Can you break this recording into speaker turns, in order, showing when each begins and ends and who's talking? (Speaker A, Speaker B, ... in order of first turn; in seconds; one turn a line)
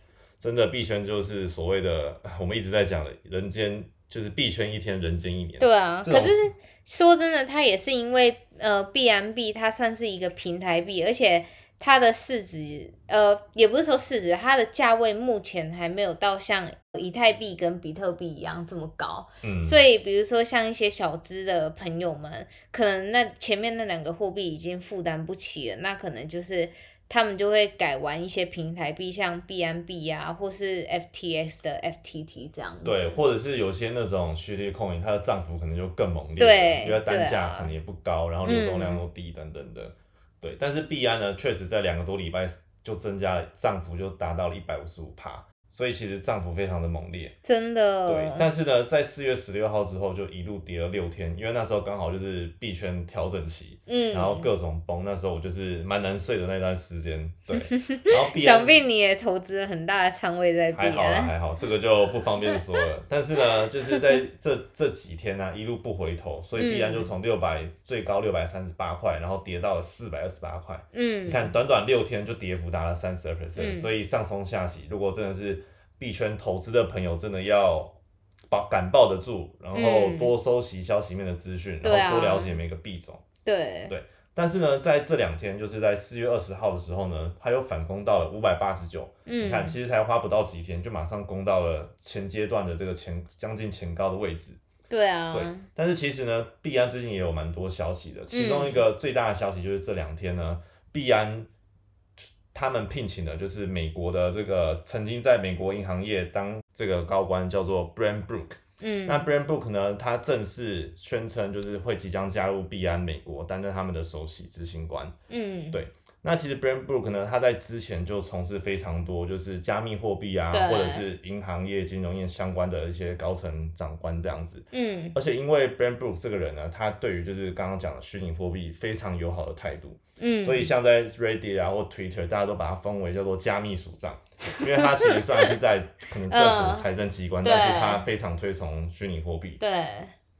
Speaker A: 0.4-6.5
Speaker B: 5.6-33.2
Speaker A: 19.4-19.8
Speaker A: 32.8-47.3
Speaker B: 36.4-37.7
Speaker B: 38.4-39.0
Speaker B: 47.4-48.5
Speaker A: 48.1-58.8
Speaker B: 53.9-54.5
Speaker B: 57.5-61.3
Speaker A: 60.7-78.0
Speaker B: 63.9-64.2
Speaker B: 66.5-67.1
Speaker B: 70.9-71.5
Speaker B: 73.6-73.9
Speaker A: 78.5-83.2
Speaker B: 79.7-80.3
Speaker B: 81.8-82.6
Speaker B: 83.4-83.9
Speaker A: 83.9-94.6
Speaker B: 89.2-89.8
Speaker B: 94.9-95.7
Speaker A: 95.3-101.5
Speaker B: 98.3-98.9
Speaker A: 102.5-115.1
Speaker B: 108.8-109.3
Speaker B: 115.3-115.8
Speaker A: 115.7-139.6
Speaker B: 120.5-121.0
Speaker B: 124.7-125.2
Speaker B: 130.2-130.7
Speaker B: 134.6-135.5
Speaker B: 136.3-136.9
Speaker B: 137.4-138.1
Speaker B: 139.6-140.1